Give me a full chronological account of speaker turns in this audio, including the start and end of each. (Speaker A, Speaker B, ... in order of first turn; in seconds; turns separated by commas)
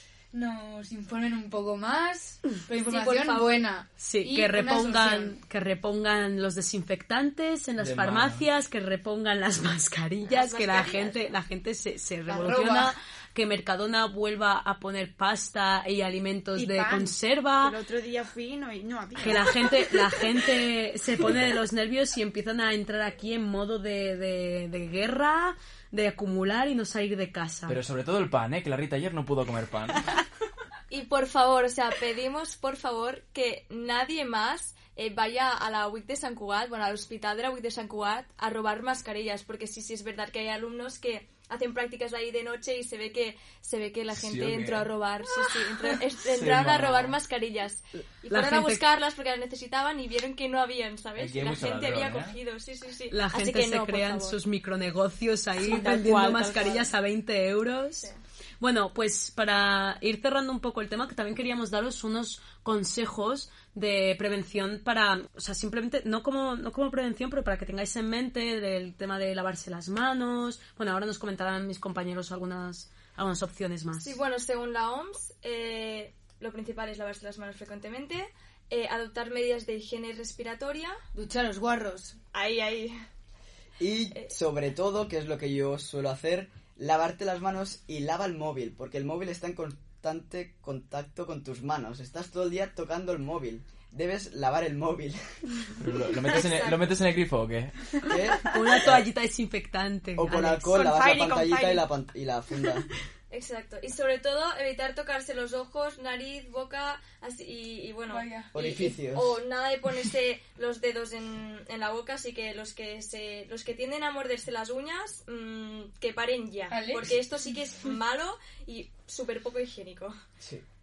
Speaker A: 0.3-5.3, Speaker B: 2.8-3.7, Speaker C: 4.0-17.8, Speaker D: 7.8-8.4, Speaker B: 10.3-11.2, Speaker A: 12.3-12.9, Speaker E: 16.5-20.2, Speaker C: 19.2-27.8, Speaker D: 27.7-30.0, Speaker B: 30.9-54.4, Speaker D: 44.1-44.9, Speaker D: 46.3-47.1, Speaker C: 48.3-48.8, Speaker D: 51.2-52.4, Speaker C: 53.1-58.1, Speaker B: 55.6-56.9, Speaker C: 58.6-74.2, Speaker B: 73.9-81.0, Speaker A: 81.1-82.1, Speaker B: 82.3-83.0, Speaker F: 83.8-95.2, Speaker D: 95.8-98.4, Speaker B: 96.2-96.9, Speaker F: 98.1-99.0, Speaker C: 98.5-100.7, Speaker F: 100.2-102.9, Speaker E: 100.7-101.8, Speaker B: 103.3-120.1, Speaker A: 108.1-108.5, Speaker F: 108.5-109.4, Speaker A: 116.7-117.9